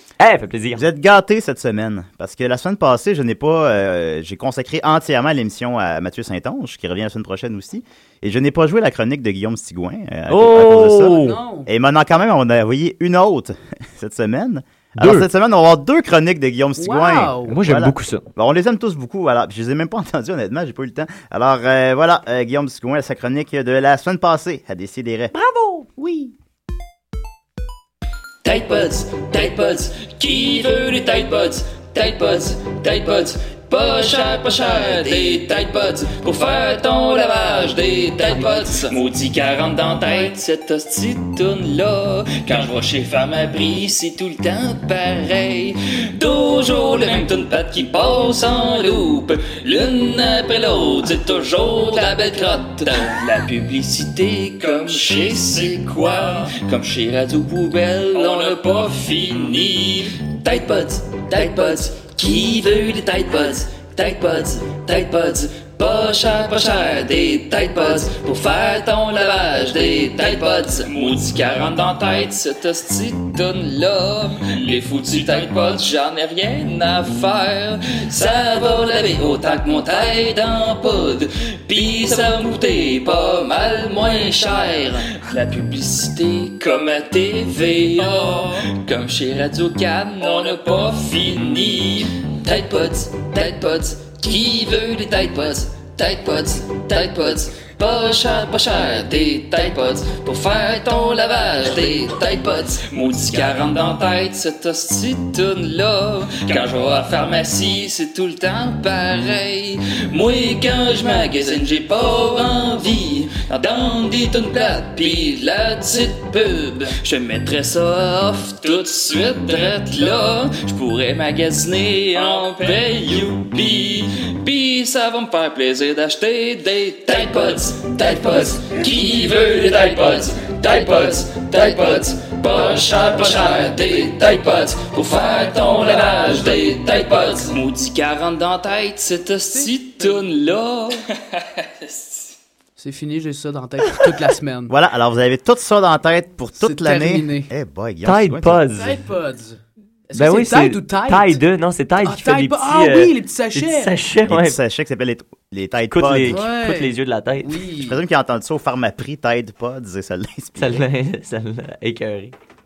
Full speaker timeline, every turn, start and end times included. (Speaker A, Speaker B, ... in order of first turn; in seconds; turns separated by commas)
Speaker A: 0.2-0.8, Speaker B: 0.7-25.3, Speaker A: 10.3-11.4, Speaker C: 11.0-11.7, Speaker A: 15.0-15.3, Speaker C: 16.8-17.6, Speaker A: 17.5-18.2, Speaker A: 25.3-25.9, Speaker B: 26.0-26.3, Speaker D: 28.4-141.0, Speaker A: 38.3-38.8, Speaker D: 141.8-142.3, Speaker C: 142.8-144.7, Speaker B: 144.7-148.6, Speaker C: 146.6-147.5, Speaker A: 148.0-148.9, Speaker C: 148.7-149.6, Speaker C: 150.1-151.4, Speaker A: 150.1-154.6, Speaker C: 152.0-153.9, Speaker B: 154.2-156.4, Speaker A: 155.9-157.6, Speaker C: 156.3-158.0, Speaker B: 157.8-160.8, Speaker A: 160.6-162.3